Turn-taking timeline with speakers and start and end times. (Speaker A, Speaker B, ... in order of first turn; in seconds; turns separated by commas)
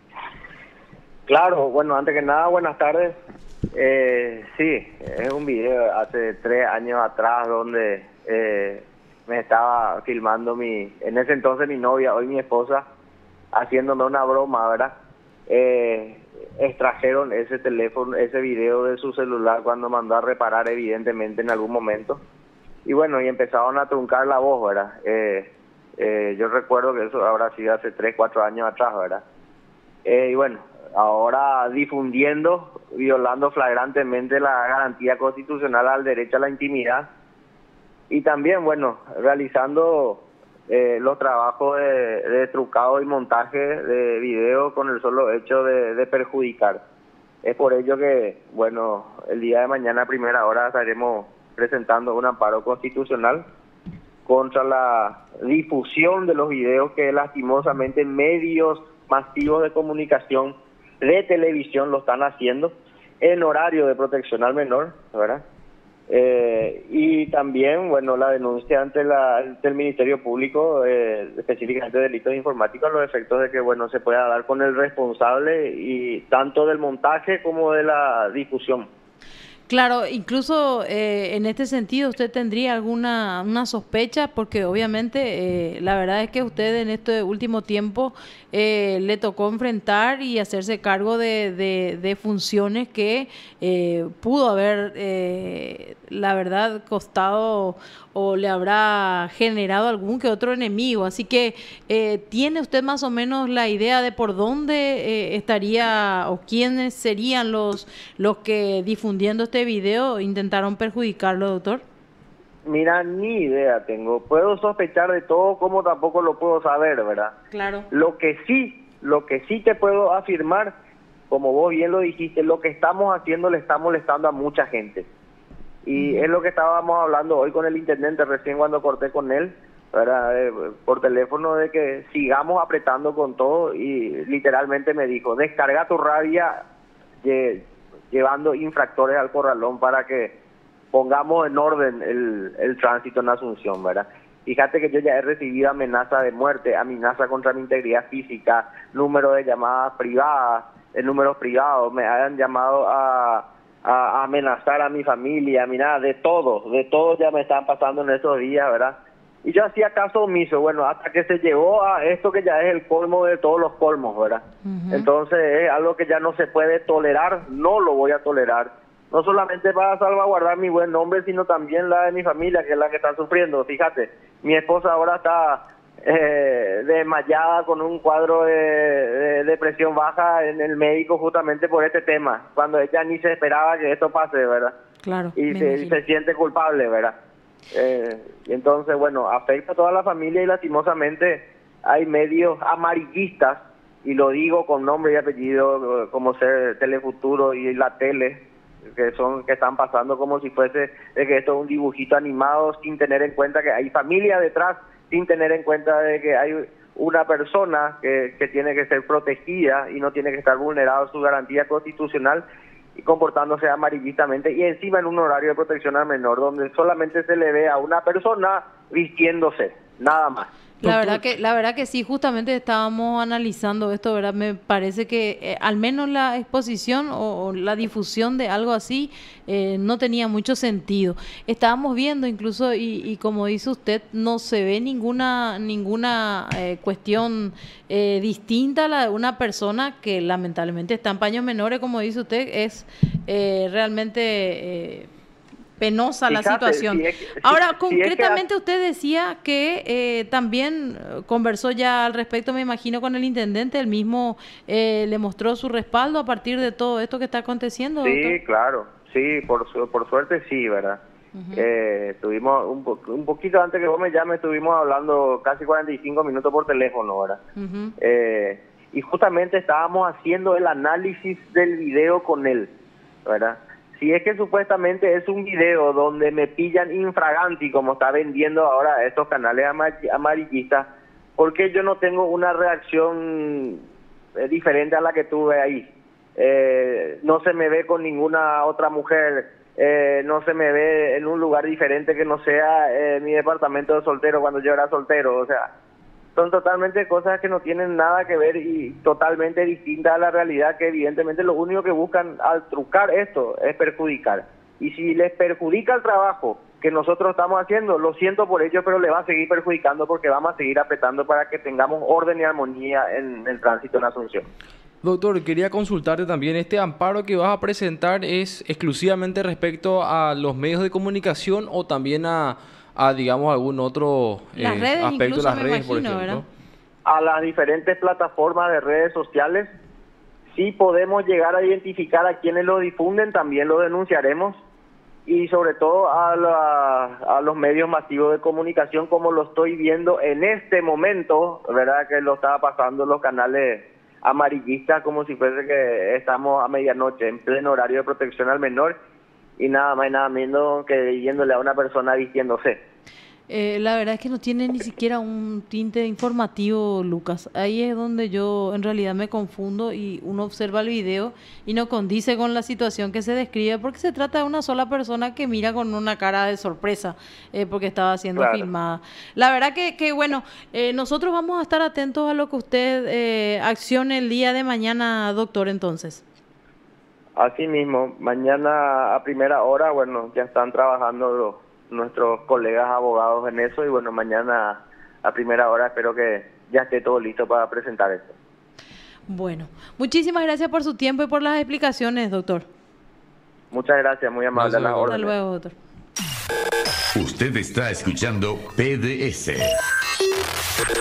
Speaker A: 1.3-3.1, Speaker A: 3.7-12.8, Speaker A: 13.5-14.9, Speaker A: 15.5-22.2, Speaker A: 22.8-29.2, Speaker A: 30.0-37.0, Speaker A: 38.1-46.8, Speaker A: 47.4-53.4, Speaker A: 54.2-65.4, Speaker A: 66.1-78.9, Speaker B: 79.7-111.8, Speaker A: 112.7-117.3, Speaker B: 117.5-117.9, Speaker A: 117.9-120.7, Speaker A: 121.3-125.1, Speaker A: 125.8-136.5, Speaker B: 125.9-126.3, Speaker A: 137.2-140.3, Speaker A: 140.9-184.7, Speaker B: 164.6-165.1, Speaker B: 185.0-186.0, Speaker A: 185.3-187.1, Speaker A: 187.7-212.4, Speaker A: 212.9-220.5, Speaker B: 220.8-245.1, Speaker C: 220.8-221.2, Speaker B: 245.8-258.4, Speaker A: 246.3-248.4, Speaker A: 258.0-261.0, Speaker B: 261.3-261.6, Speaker A: 261.5-267.4, Speaker B: 267.6-267.9, Speaker A: 268.0-272.7, Speaker A: 273.2-283.8, Speaker A: 284.4-295.7, Speaker A: 296.4-314.4, Speaker C: 315.0-326.4, Speaker B: 324.6-326.4, Speaker A: 327.1-329.7, Speaker A: 330.5-334.6, Speaker A: 335.2-349.0, Speaker A: 349.6-352.8, Speaker B: 353.5-376.2, Speaker A: 368.4-368.7, Speaker A: 377.4-388.3, Speaker B: 389.3-392.6, Speaker A: 393.7-395.3, Speaker C: 394.5-395.1, Speaker B: 395.1-395.7, Speaker D: 397.1-399.7